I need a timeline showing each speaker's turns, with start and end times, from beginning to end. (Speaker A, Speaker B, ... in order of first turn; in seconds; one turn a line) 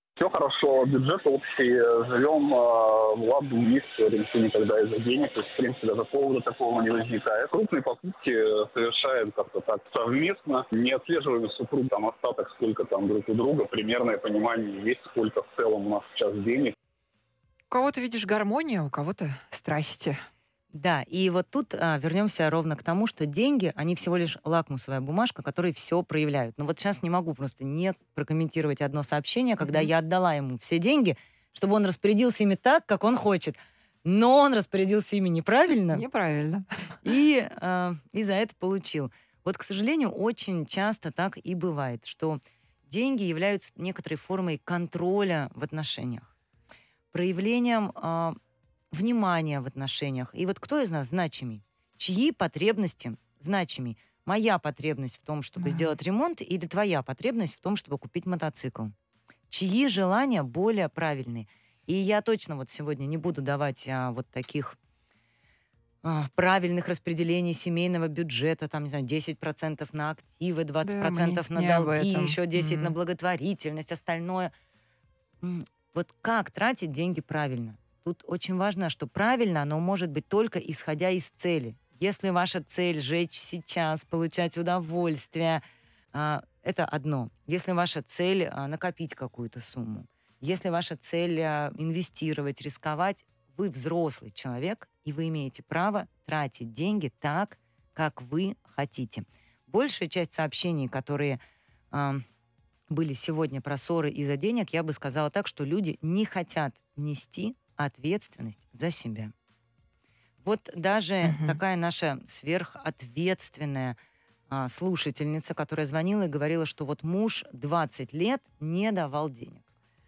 Speaker A: 0.2-16.7
Speaker B: 17.7-20.2
Speaker C: 20.7-36.0
Speaker B: 29.6-29.9
Speaker B: 35.9-37.0
Speaker C: 37.0-46.3
Speaker C: 47.1-48.4
Speaker C: 48.9-58.9
Speaker B: 55.6-55.9
Speaker C: 59.5-64.8
Speaker C: 66.0-74.5
Speaker B: 70.8-72.9
Speaker C: 75.4-101.4
Speaker C: 101.9-102.2
Speaker C: 102.9-109.3
Speaker C: 110.4-114.0
Speaker B: 111.2-111.6
Speaker C: 114.5-119.6